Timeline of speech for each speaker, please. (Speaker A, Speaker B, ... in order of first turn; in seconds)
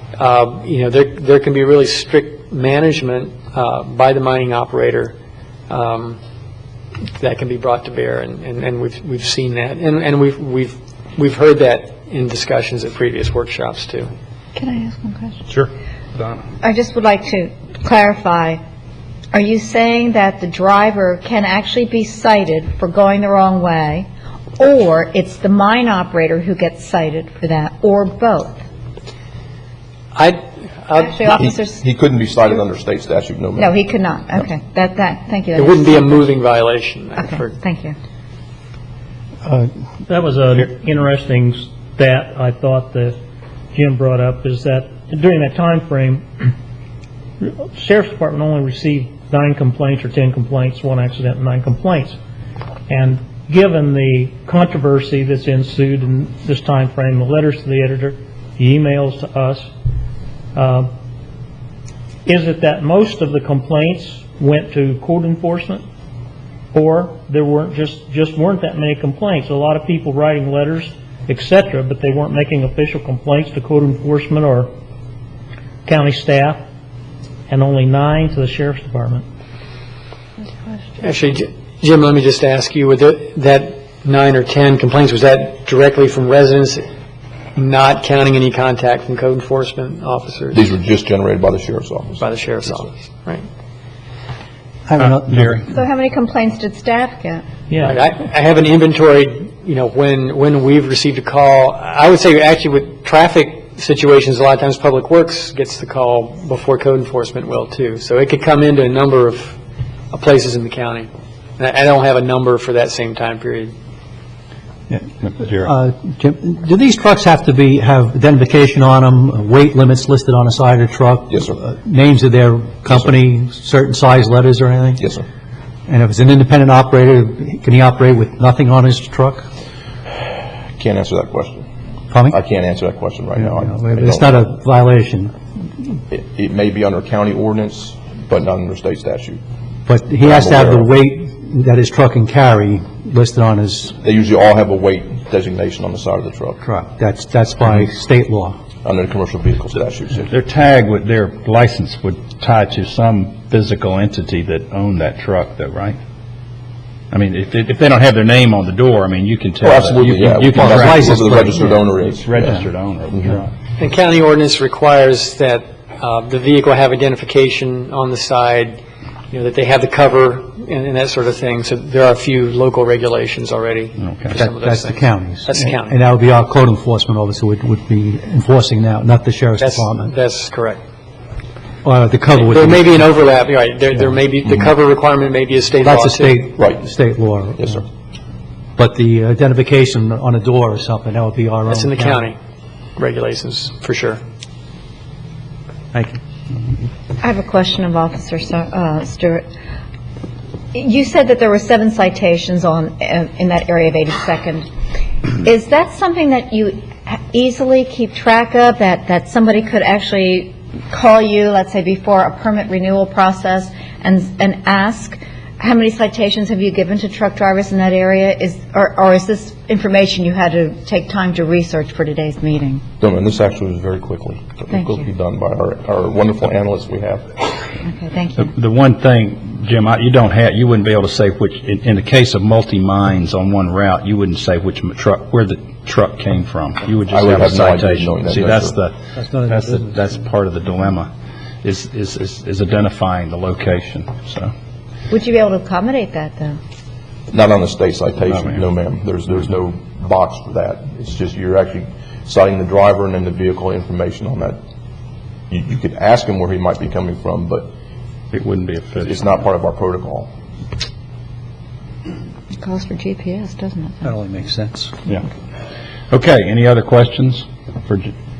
Speaker A: 0.1-5.2, 5.7-6.2, 7.2-14.1, 30.1-31.3, 35.5-37.5, 81.0-86.9, 87.5-90.6, 92.2-93.4, 97.8-109.6, 110.1-113.7, 163.8-168.8, 169.3-176.0, 179.6-180.8, 182.3-186.4, 191.7-192.4, 193.0-194.2
Speaker B: 14.6-15.4, 16.6-18.6, 19.3-24.1, 24.6-28.6, 30.9-31.8, 33.6-36.2, 37.2-37.9, 95.7-97.4, 197.2-199.4, 200.7-204.7, 205.3-222.8, 227.8-228.5, 245.1-246.6, 262.6-264.1
Speaker C: 15.5-16.4, 95.0-95.5, 115.2-115.7, 150.3-156.0, 157.1-163.5, 174.0-174.4, 228.4-241.1, 241.6-244.5, 248.3-248.6, 258.3-259.2, 266.1-268.1
Speaker D: 31.4-33.7, 90.5-92.2, 130.8-131.6, 132.3-134.4, 136.1-139.4, 140.2-140.9, 144.0-146.6, 148.8-150.2, 159.6-162.5, 163.1-163.4, 223.0-227.5, 237.1-238.8, 247.3-254.6, 255.5-257.7, 259.0-260.3
Speaker E: 39.5-39.7, 94.9-95.7, 115.6-125.1, 125.9-129.4, 132.1-132.4, 133.3-135.3, 139.8-143.9, 146.6-148.6, 160.6-161.5, 174.4-180.1, 181.8-183.1, 185.8-187.9, 188.8-192.3, 195.9-196.8, 239.1-240.0, 264.0-264.9
Speaker F: 40.1-43.2, 43.7-46.5, 47.4-52.1, 52.9-59.7, 60.5-60.9, 62.2-65.8, 66.7-74.7, 75.8-76.6, 77.5-79.2